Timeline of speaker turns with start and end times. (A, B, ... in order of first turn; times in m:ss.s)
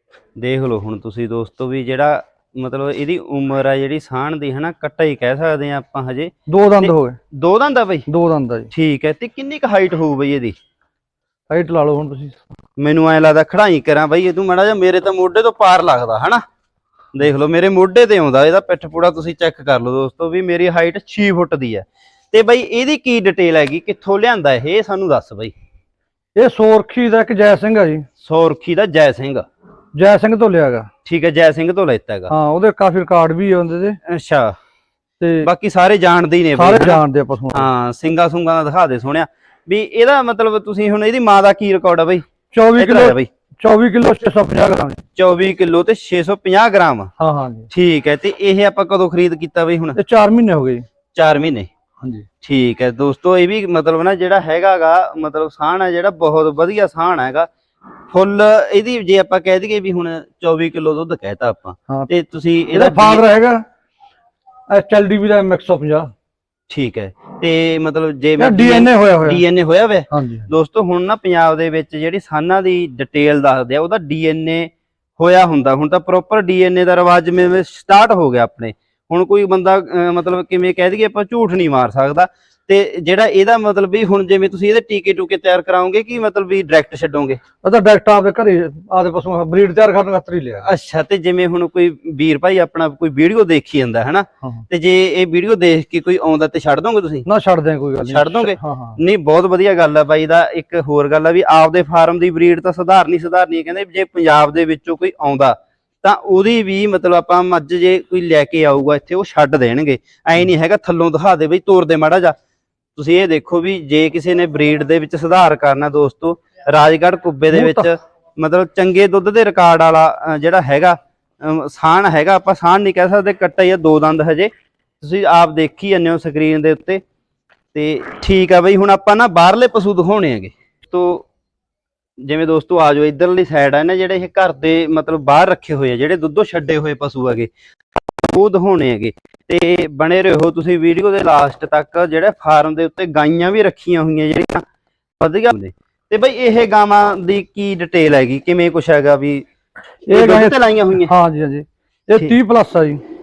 0:00.4-0:08.1 A
0:06.5-0:07.2 B
0:08.1-0:08.7 B
0:08.7-0:10.6 A
0:11.5-0:12.4 B
0:12.8-0:16.4 A
0:17.1-0:25.5 A
0:26.4-0:28.0 B
0:28.2-0:29.4 A
0:29.9-0:30.9 B
0:31.0-0:32.3 A
0:32.3-0:34.0 B
0:34.0-0:34.6 A
0:35.2-0:35.5 B
0:35.4-0:37.0 A
0:36.6-0:37.7 B
0:37.5-0:43.3 A
0:42.5-0:45.0 B
0:45.2-0:47.1 A
0:47.2-0:47.7 B
0:47.7-0:50.0 A
0:50.0-0:50.8 B
0:51.1-0:51.7 A
0:52.0-0:52.3 B
0:52.4-0:57.5 A
0:58.1-1:03.2 A
1:02.7-1:03.6 B
1:04.7-1:06.1 B
1:06.7-1:27.4 A
1:08.4-1:09.4 B
1:10.1-1:10.5 B
1:27.6-1:30.7 B
1:30.6-1:37.3 A
1:37.2-1:39.0 B
1:38.0-1:52.4 A
1:53.0-2:07.0 A
1:57.5-1:57.9 B
2:07.7-2:11.3 A
2:12.2-2:17.5 A
2:18.2-2:24.6 A
2:25.2-2:29.4 A
2:30.1-2:33.0 B
2:30.1-2:31.1 A